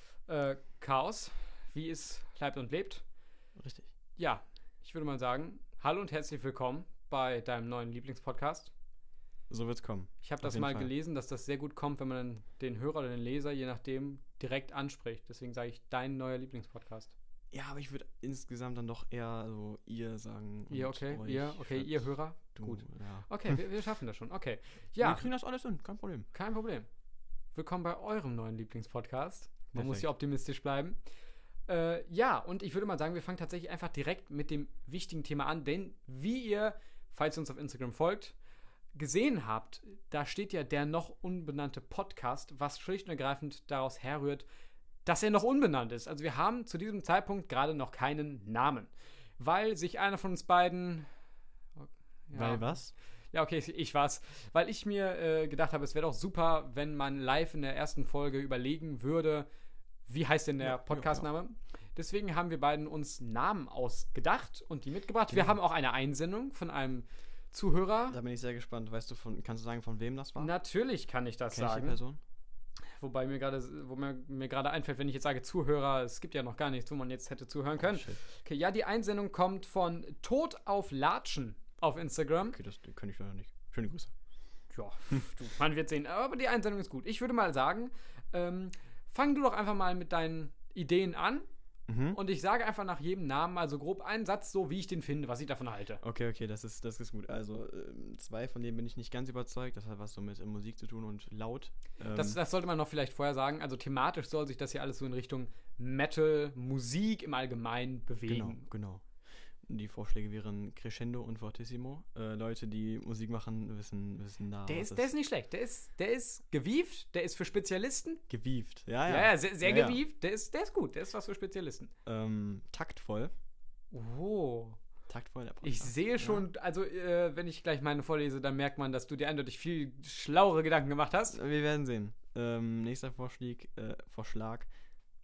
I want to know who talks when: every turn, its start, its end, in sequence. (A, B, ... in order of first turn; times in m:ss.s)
0:00.3-0:03.0 A
0:03.6-0:03.9 B
0:04.2-0:08.7 A
0:09.5-0:10.9 B
0:10.2-0:17.1 A
0:17.5-0:23.6 B
0:20.7-0:25.3 A
0:25.0-0:26.3 B
0:26.3-0:26.9 A
0:27.5-0:31.0 A
0:29.7-0:30.1 B
0:31.7-0:38.3 A
0:38.9-0:44.5 A
0:45.0-0:51.1 A
0:51.8-0:52.8 A
0:52.3-0:52.9 B
0:53.3-0:59.5 A
1:00.1-1:08.2 A
1:00.6-1:01.3 B
1:05.3-1:05.6 B
1:08.1-1:10.5 B
1:10.4-1:12.0 A
1:11.5-1:12.2 B
1:13.0-1:22.6 A
1:17.8-1:18.2 B
1:22.5-1:24.1 B
1:24.7-1:31.5 A
1:31.9-1:32.2 B
1:32.1-1:36.0 A
1:36.0-1:42.4 B
1:42.1-1:48.6 A
1:48.3-1:49.0 B
1:49.6-1:55.1 B
1:54.6-1:58.2 A
1:58.3-2:00.0 B
1:59.1-2:01.9 A
2:02.0-2:03.3 B
2:03.9-2:04.8 A
2:05.1-2:06.5 B
2:05.6-2:11.4 A
2:11.3-2:14.7 B